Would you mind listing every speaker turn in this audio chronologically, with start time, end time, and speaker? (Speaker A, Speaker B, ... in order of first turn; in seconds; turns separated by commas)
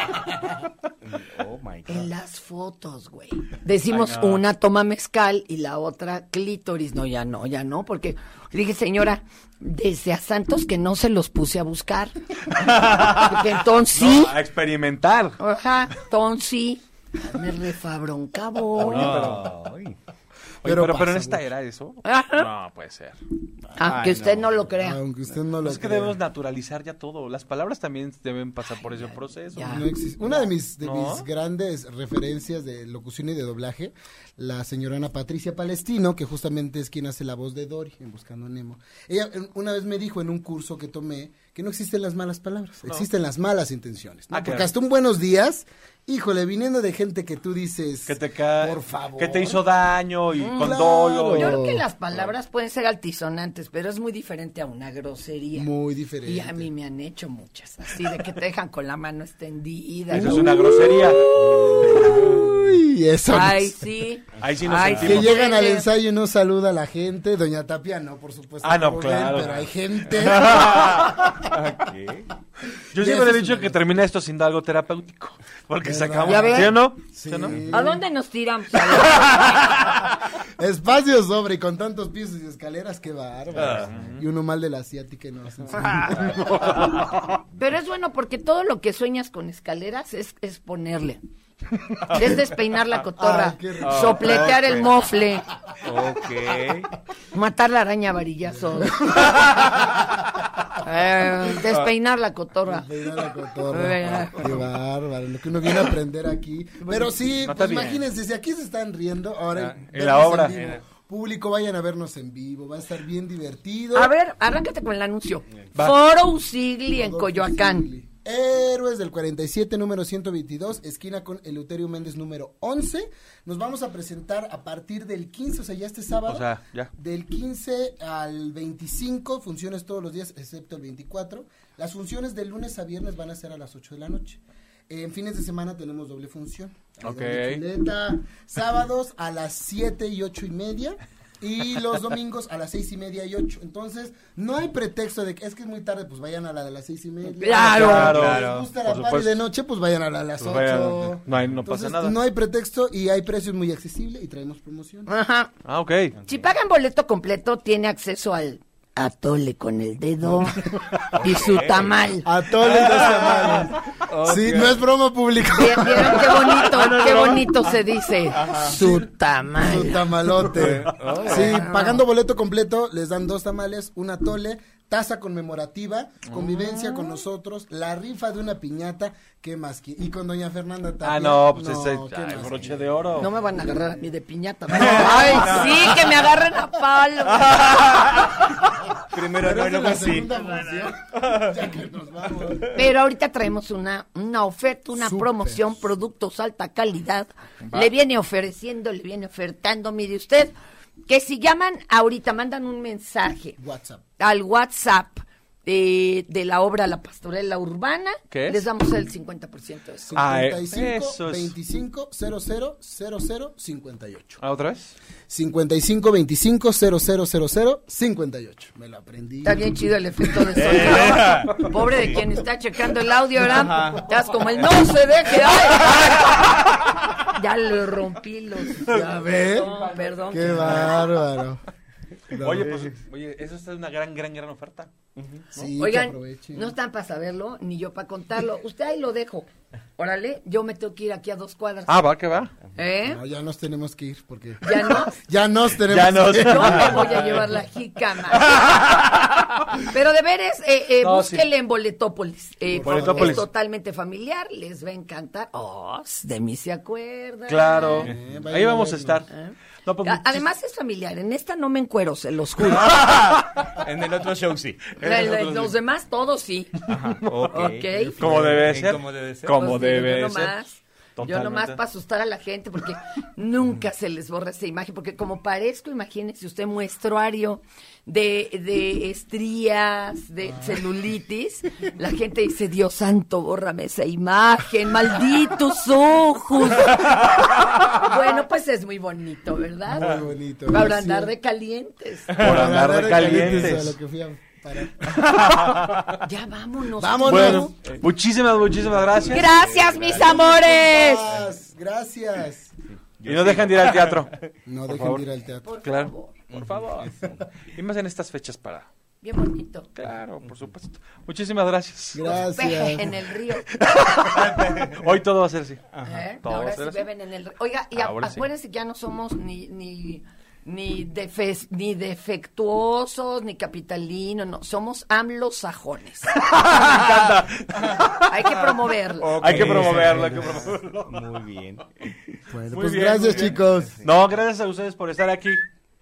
Speaker A: 1.0-2.1, Speaker B: 1.9-14.3, Speaker C: 3.9-4.4, Speaker C: 12.7-13.4, Speaker C: 13.9-15.4, Speaker B: 15.4-19.2, Speaker C: 18.7-19.6, Speaker A: 18.9-19.9, Speaker C: 20.6-23.2, Speaker D: 20.6-21.5, Speaker B: 22.0-22.5, Speaker B: 23.8-25.0, Speaker A: 23.8-24.5, Speaker D: 24.8-26.2, Speaker C: 25.6-31.3, Speaker B: 29.5-29.8, Speaker D: 29.6-49.6, Speaker C: 44.3-44.7, Speaker C: 48.1-51.6, Speaker B: 50.4-55.7, Speaker D: 50.5-51.8, Speaker D: 55.5-56.7, Speaker B: 56.2-61.1, Speaker C: 60.1-61.4, Speaker D: 60.2-63.8, Speaker B: 63.3-65.8, Speaker C: 64.4-65.4, Speaker D: 64.9-71.3, Speaker C: 68.6-69.6, Speaker A: 70.3-72.3, Speaker C: 70.5-71.1, Speaker C: 72.9-77.6, Speaker D: 72.9-73.8, Speaker D: 75.8-78.0, Speaker A: 76.1-76.5, Speaker B: 76.2-76.7, Speaker B: 77.7-79.6, Speaker D: 80.6-86.5, Speaker A: 83.5-83.9, Speaker C: 83.7-84.2, Speaker C: 86.2-87.0, Speaker B: 87.6-91.2, Speaker B: 92.0-95.5, Speaker D: 93.2-94.5, Speaker A: 93.8-94.9, Speaker A: 95.8-96.9, Speaker B: 97.3-99.6, Speaker D: 98.5-99.4, Speaker B: 100.8-102.9, Speaker D: 102.7-114.1, Speaker B: 103.7-104.5, Speaker C: 107.4-108.0, Speaker B: 107.6-108.0, Speaker C: 109.8-110.7, Speaker A: 110.5-110.7, Speaker B: 113.9-117.9, Speaker D: 116.9-155.1, Speaker C: 126.2-126.9, Speaker C: 137.0-137.6, Speaker B: 147.4-148.4, Speaker C: 147.5-149.4, Speaker A: 147.9-148.7, Speaker C: 150.4-152.2, Speaker B: 155.1-155.5, Speaker C: 155.6-156.2, Speaker B: 156.2-162.3, Speaker A: 161.1-162.0, Speaker D: 162.2-167.5, Speaker A: 162.7-163.4, Speaker C: 162.7-163.5, Speaker A: 164.1-164.8, Speaker B: 165.5-170.1, Speaker A: 168.3-168.8, Speaker D: 168.5-182.8, Speaker A: 170.6-171.6, Speaker B: 171.2-172.0, Speaker C: 176.3-176.6, Speaker B: 176.7-177.2, Speaker C: 181.0-183.3, Speaker B: 183.2-187.7, Speaker D: 183.5-183.9, Speaker D: 184.7-185.5, Speaker A: 184.7-186.2, Speaker A: 187.2-191.6, Speaker D: 189.3-192.8, Speaker B: 192.7-200.5, Speaker D: 195.0-195.7, Speaker B: 201.1-203.6, Speaker D: 203.6-204.0, Speaker B: 204.2-210.2, Speaker C: 208.3-208.6, Speaker D: 210.1-214.4, Speaker C: 210.2-211.5, Speaker C: 214.4-214.9, Speaker D: 215.3-219.7, Speaker B: 219.4-226.7, Speaker D: 220.2-220.5, Speaker A: 220.6-222.2, Speaker A: 223.5-224.1, Speaker B: 227.2-230.9, Speaker D: 228.8-231.6, Speaker C: 228.9-231.1, Speaker D: 232.3-232.9, Speaker C: 232.3-234.9, Speaker A: 235.2-235.4, Speaker D: 235.5-236.7, Speaker B: 235.8-242.1, Speaker C: 241.9-242.5, Speaker B: 242.7-243.2, Speaker D: 243.0-247.2, Speaker B: 244.6-245.2, Speaker C: 245.9-247.6, Speaker B: 246.3-248.9, Speaker C: 248.5-249.8, Speaker B: 249.8-258.1, Speaker C: 251.0-251.5, Speaker D: 252.7-253.4, Speaker C: 252.8-253.4, Speaker C: 257.5-259.3, Speaker D: 258.0-259.2, Speaker B: 259.3-263.0, Speaker C: 259.8-260.4, Speaker A: 262.8-265.0, Speaker C: 264.9-265.7, Speaker B: 265.0-266.8, Speaker A: 266.9-269.6, Speaker C: 266.9-270.6, Speaker B: 267.5-268.2, Speaker B: 269.5-292.4, Speaker C: 271.1-271.8, Speaker D: 289.9-291.3, Speaker A: 292.3-293.8, Speaker C: 292.4-293.9, Speaker D: 292.4-295.2, Speaker A: 295.1-296.1, Speaker B: 296.1-297.7, Speaker D: 297.0-297.8, Speaker C: 297.2-299.6, Speaker A: 299.0-300.6, Speaker B: 299.3-301.2, Speaker D: 300.1-302.7, Speaker A: 302.9-304.5, Speaker C: 303.2-304.3, Speaker D: 304.6-305.7, Speaker C: 304.9-305.2, Speaker B: 305.6-306.3, Speaker C: 305.8-307.2, Speaker A: 306.5-307.4, Speaker C: 307.7-308.9, Speaker B: 309.2-309.9, Speaker C: 309.9-312.4, Speaker D: 312.1-313.1, Speaker B: 312.3-313.8, Speaker C: 313.8-315.9, Speaker A: 314.3-315.0, Speaker A: 315.9-316.2, Speaker B: 316.0-327.4, Speaker C: 316.4-317.1, Speaker C: 317.9-318.4, Speaker C: 326.4-331.4, Speaker B: 328.1-329.4, Speaker A: 329.2-332.1, Speaker D: 329.6-330.4, Speaker D: 332.5-334.0, Speaker C: 332.7-335.6, Speaker A: 333.3-334.1